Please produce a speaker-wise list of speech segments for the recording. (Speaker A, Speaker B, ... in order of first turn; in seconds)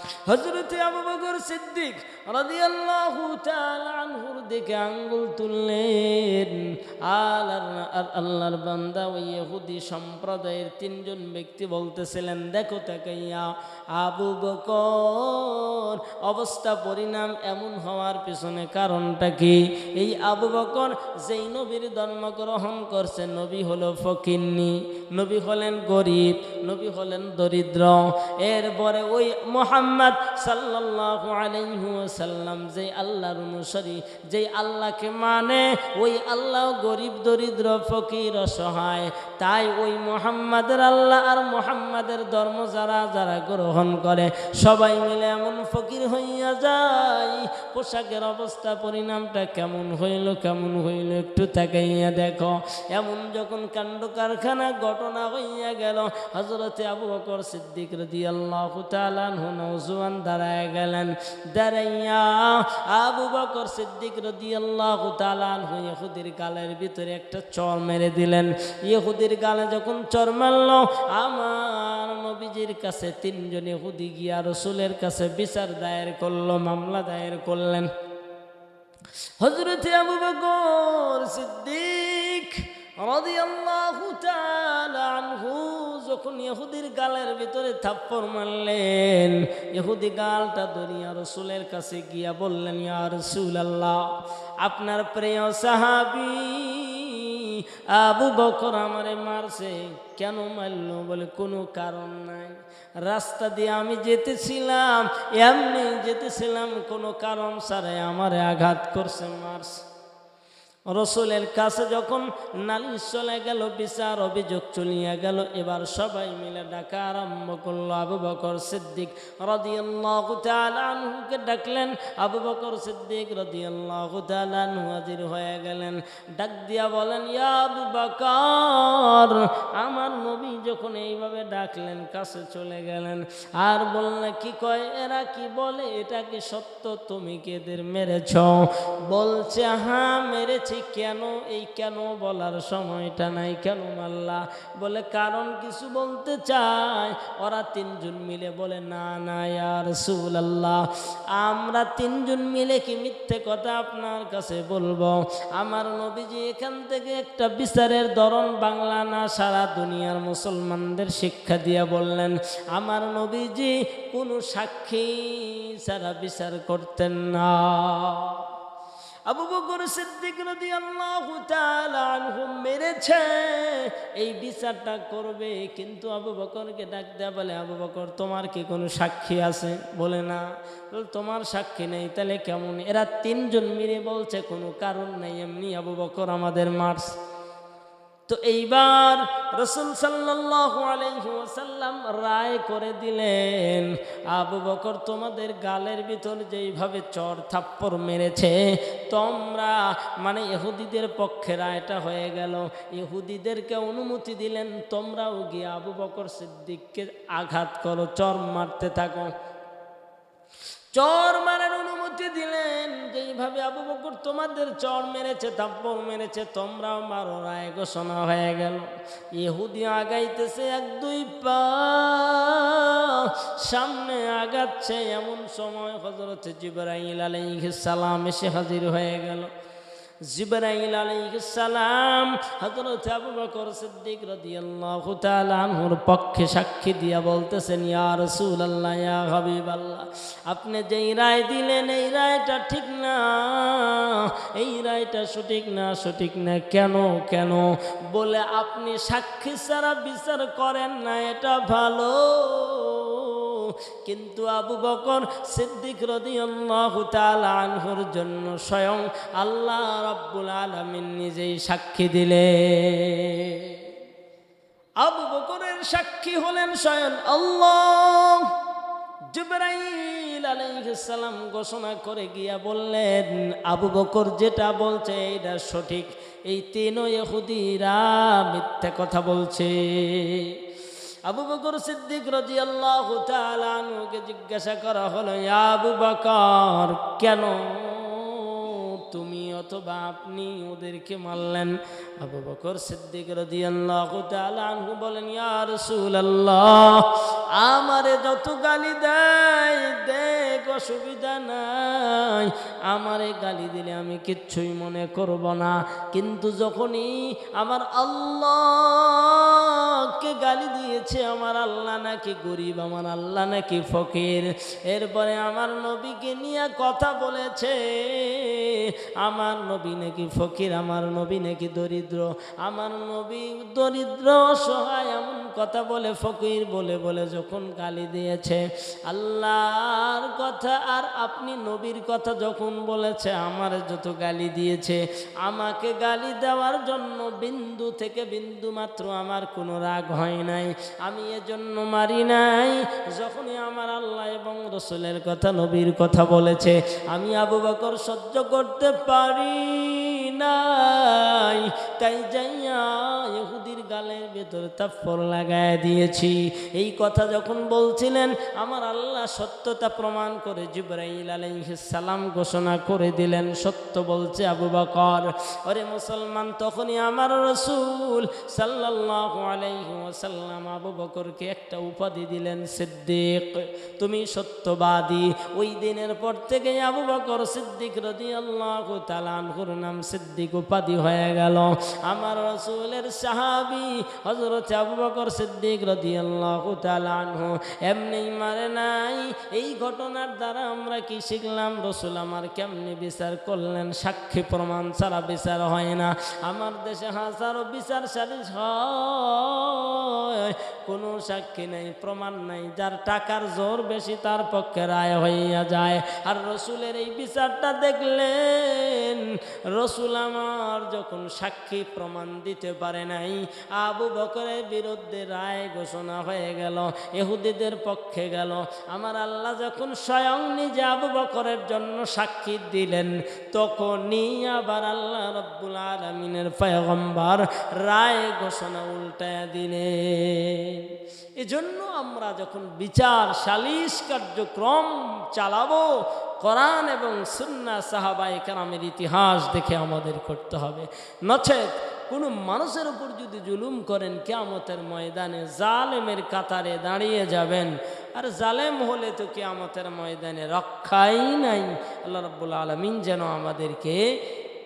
Speaker A: 0.2-77.9, 79.4-109.8, 110.9-168.4, 169.3-187.1, 188.3-209.3, 210.9-229.5, 230.3-263.8, 265.0-268.5, 269.3-280.6, 281.3-454.0